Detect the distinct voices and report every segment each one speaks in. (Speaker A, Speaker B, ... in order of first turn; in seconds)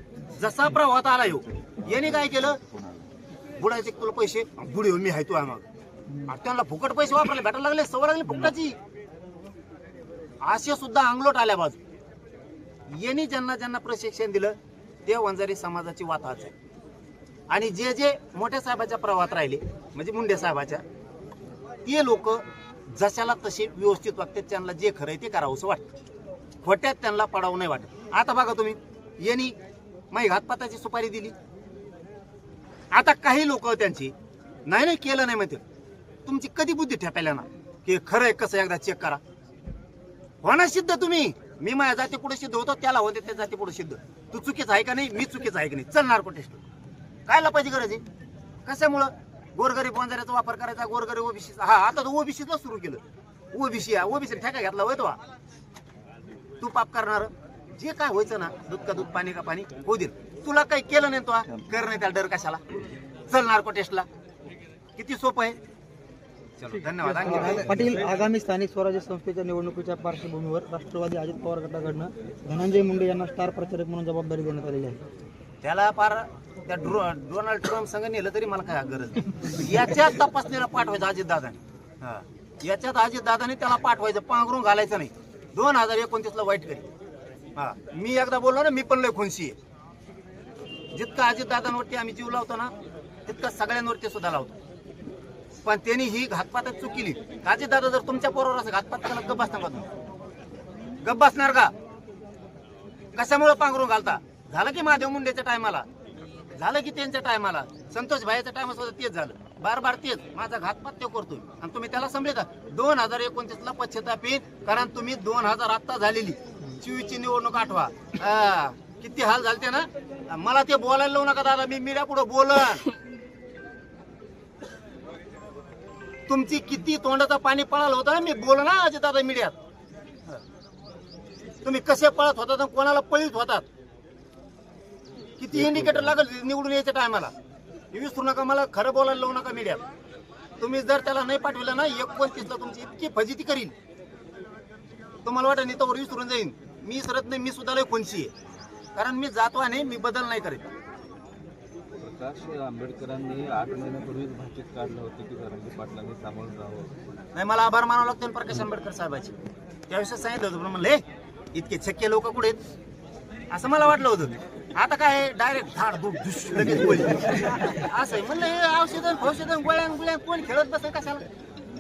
Speaker A: 0.3-2.6, 3.6-5.7, 6.2-8.8, 10.4-11.8, 12.9-16.5, 17.5-20.8, 21.9-25.9, 26.6-29.6, 30.1-31.4, 32.9-34.1, 34.7-35.6, 36.3-39.2, 40.4-46.6, 47.3-48.0, 48.6-55.2, 56.6-62.6, 63.3-64.1, 65.0-65.6, 66.6-67.9, 75.6-86.9, 87.6-89.6, 90.9-92.7, 93.3-94.6, 95.6-99.9, 101.0-101.7, 103.2-105.9, 106.5-122.9, 126.3-129.6, 131.6-133.7, 135.4-137.3, 137.9-139.8, 140.6-143.7, 145.2-148.3, 148.9-150.7, 157.3-159.3, 159.9-161.0, 161.5-162.6, 163.5-171.2
Speaker B: 67.0-75.0
Speaker C: 135.7-136.1, 152.0-157.0